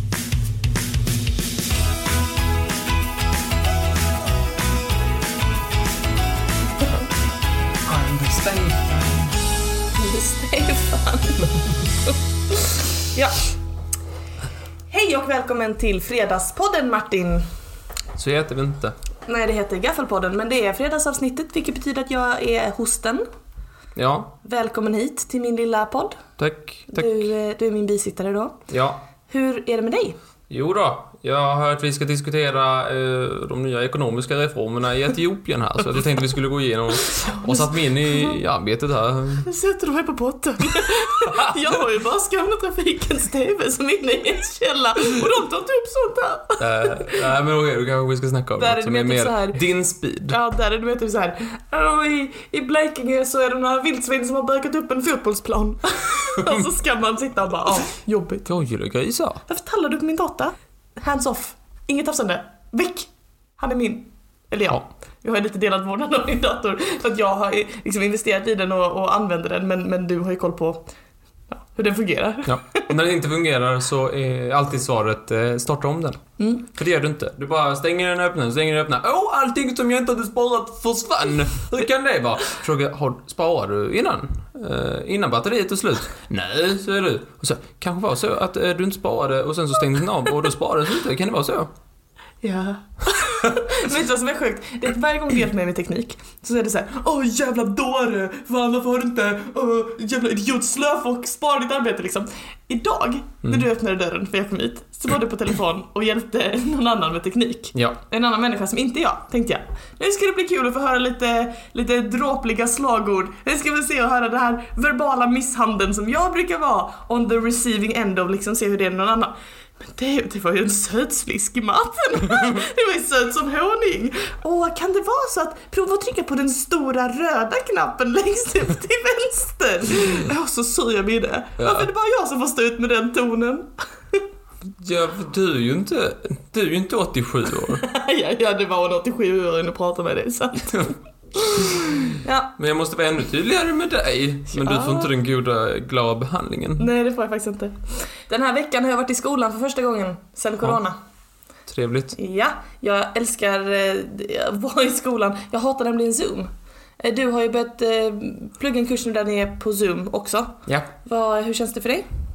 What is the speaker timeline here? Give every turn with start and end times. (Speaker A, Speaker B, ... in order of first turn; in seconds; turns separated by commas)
Speaker A: 7.9-9.3, Speaker B: 9.9-13.3, Speaker B: 14.9-17.4, Speaker A: 18.2-18.9, Speaker B: 19.3-23.2, Speaker A: 24.0-24.3, Speaker B: 24.4-26.2, Speaker A: 26.4-27.3, Speaker B: 26.9-28.6, Speaker A: 28.7-29.0, Speaker B: 29.3-30.2, Speaker A: 30.5-39.5, Speaker B: 37.1-38.4, Speaker B: 39.5-47.2, Speaker A: 46.6-50.4, Speaker B: 48.6-49.6, Speaker B: 50.3-58.5, Speaker A: 58.5-59.4, Speaker B: 59.5-70.8, Speaker B: 71.5-72.9, Speaker A: 72.5-91.7, Speaker B: 92.4-134.2, Speaker A: 131.6-131.9, Speaker A: 134.8-137.8, Speaker B: 137.8-142.5, Speaker A: 142.6-146.9, Speaker B: 144.5-145.1, Speaker B: 146.8-151.0, Speaker A: 151.7-152.2, Speaker B: 152.2-156.5, Speaker B: 157.0-162.1